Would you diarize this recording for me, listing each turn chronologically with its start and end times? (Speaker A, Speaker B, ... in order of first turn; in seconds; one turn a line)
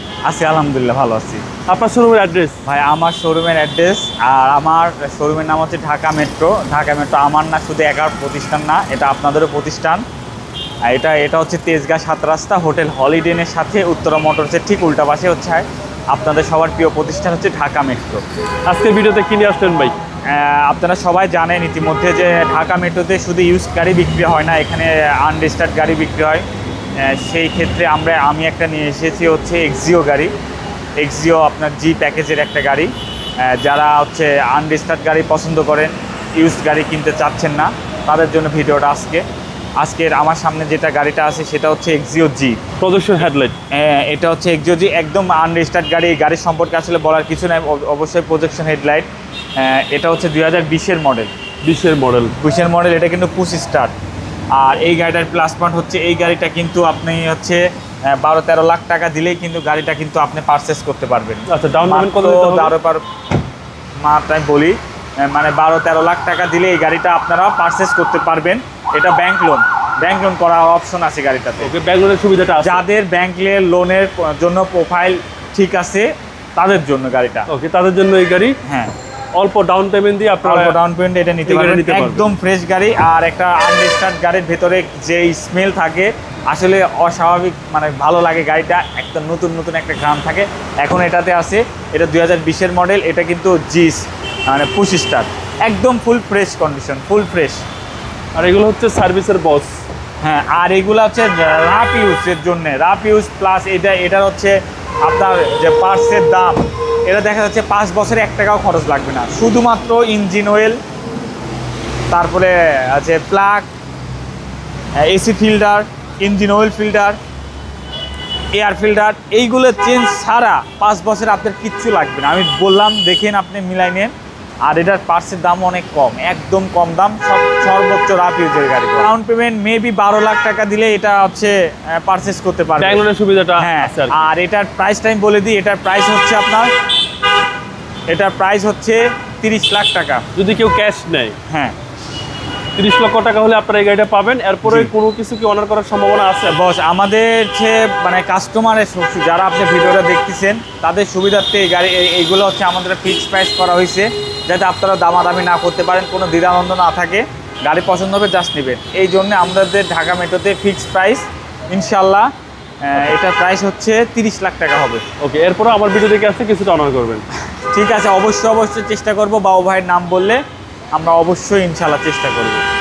Speaker A: 0.2-1.4
Speaker B: 1.7-2.6
Speaker A: 2.6-10.0
Speaker A: 10.9-18.2
Speaker B: 18.7-19.9
Speaker A: 20.3-26.4
Speaker A: 27.0-30.3
Speaker A: 31.0-39.2
Speaker A: 39.8-42.6
Speaker B: 42.8-43.5
Speaker A: 43.7-51.3
Speaker B: 51.6-52.3
Speaker A: 52.3-53.9
Speaker A: 54.5-63.0
Speaker B: 61.5-62.8
Speaker A: 64.0-71.7
Speaker B: 71.6-72.8
Speaker A: 72.6-77.5
Speaker B: 77.5-78.6
Speaker A: 78.6-78.9
Speaker B: 79.4-80.8
Speaker A: 80.4-97.6
Speaker B: 81.5-82.2
Speaker B: 98.3-99.7
Speaker A: 100.2-110.8
Speaker A: 112.1-113.7
Speaker A: 115.0-117.2
Speaker A: 118.5-124.1
Speaker A: 124.6-133.0
Speaker B: 132.8-134.2
Speaker A: 133.6-136.7
Speaker A: 138.1-140.2
Speaker B: 140.3-141.3
Speaker A: 141.5-141.8
Speaker B: 142.8-146.6
Speaker A: 144.7-144.9
Speaker A: 146.5-162.3
Speaker A: 162.8-165.0
Speaker B: 165.2-167.2
Speaker A: 167.7-170.4
Speaker A: 170.9-172.6